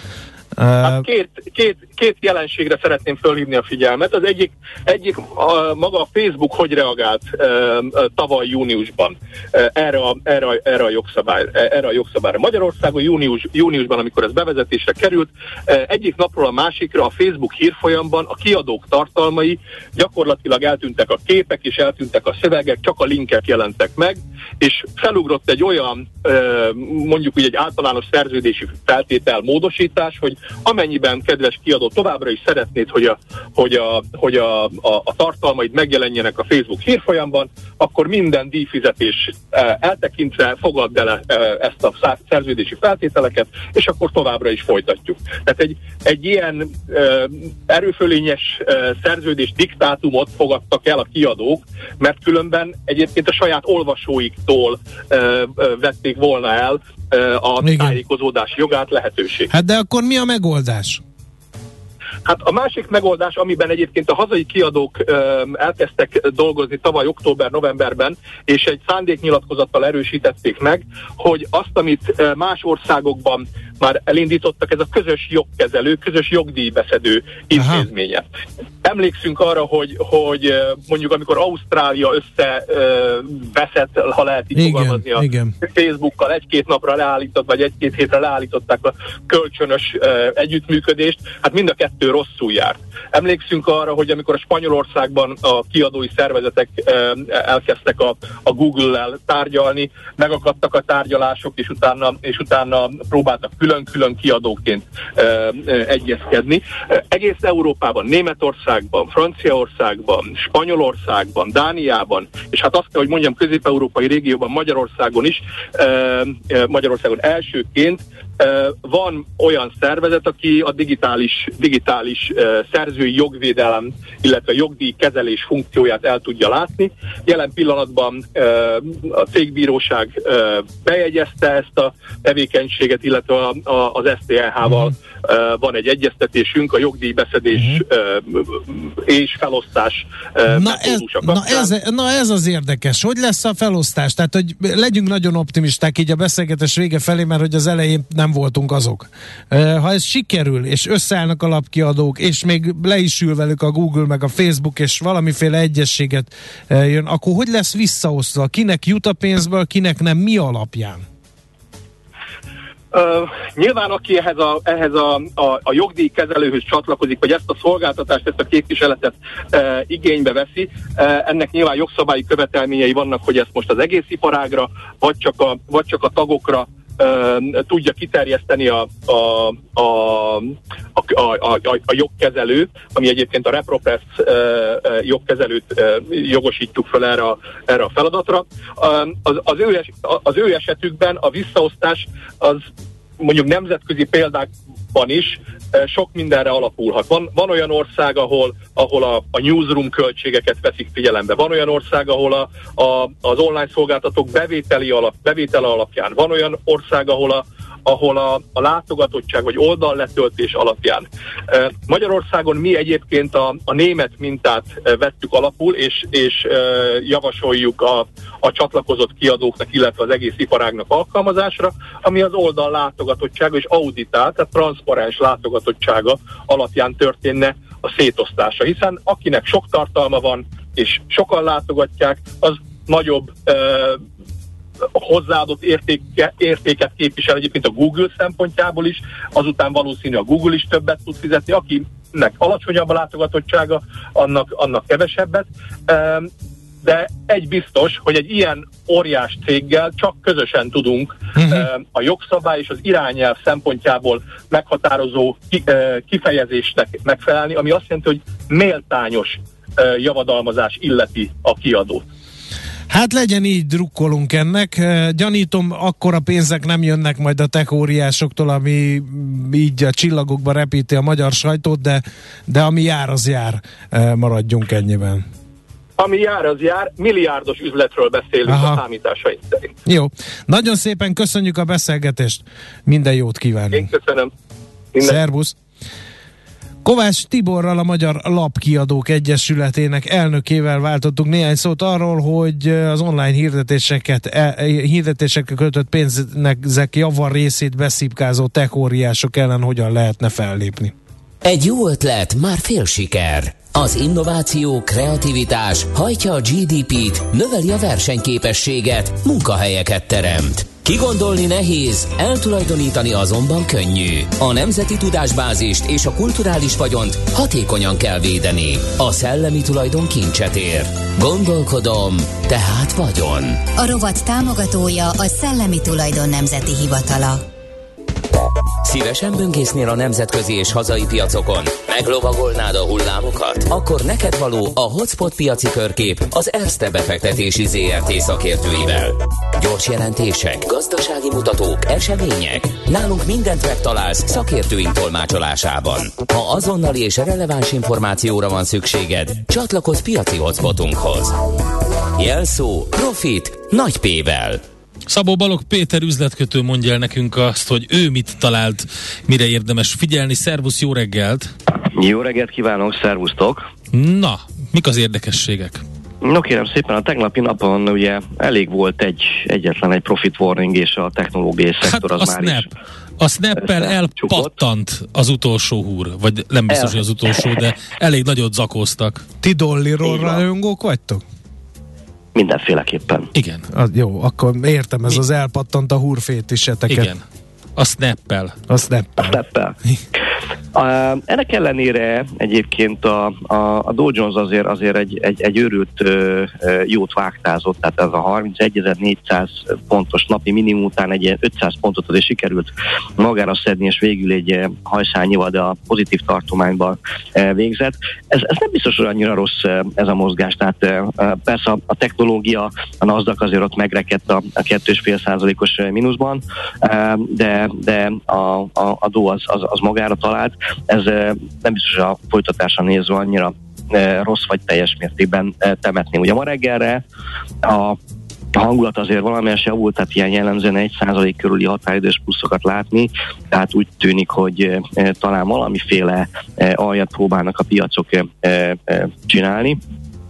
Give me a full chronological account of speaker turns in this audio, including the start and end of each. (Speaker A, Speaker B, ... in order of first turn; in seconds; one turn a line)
Speaker A: 0.6-1.0
Speaker B: 0.8-59.5
Speaker A: 57.6-58.0
Speaker A: 59.5-61.0
Speaker B: 62.2-78.2
Speaker A: 77.5-77.9
Speaker B: 78.8-141.7
Speaker A: 84.5-85.5
Speaker A: 134.7-134.9
Speaker A: 137.5-137.8
Speaker A: 140.5-161.0
Speaker B: 162.9-192.6
Speaker B: 193.2-234.0
Speaker B: 234.9-246.3
Speaker B: 246.8-262.0
Speaker A: 251.4-251.7
Speaker A: 262.9-275.2
Speaker B: 276.0-279.7
Speaker A: 278.4-278.8
Speaker A: 279.9-283.9
Speaker B: 283.7-284.3
Speaker B: 284.9-285.2
Speaker A: 285.0-285.6
Speaker A: 286.8-300.9
Speaker C: 301.4-323.6
Speaker D: 323.8-327.4
Speaker C: 328.8-351.4
Speaker C: 352.1-354.6
Speaker E: 355.1-361.5
Speaker F: 361.9-363.6
Speaker E: 363.9-365.8
Speaker F: 366.2-372.7
Speaker E: 371.8-379.2
Speaker F: 373.6-374.6
Speaker F: 376.7-377.5
Speaker A: 379.4-381.2
Speaker F: 380.0-380.4
Speaker F: 382.4-383.3
Speaker E: 383.3-383.6
Speaker A: 383.7-387.1
Speaker E: 386.9-387.2
Speaker E: 387.8-388.6
Speaker A: 388.7-389.4
Speaker F: 389.2-389.8
Speaker F: 390.7-427.0
Speaker F: 427.6-428.0
Speaker F: 428.5-439.8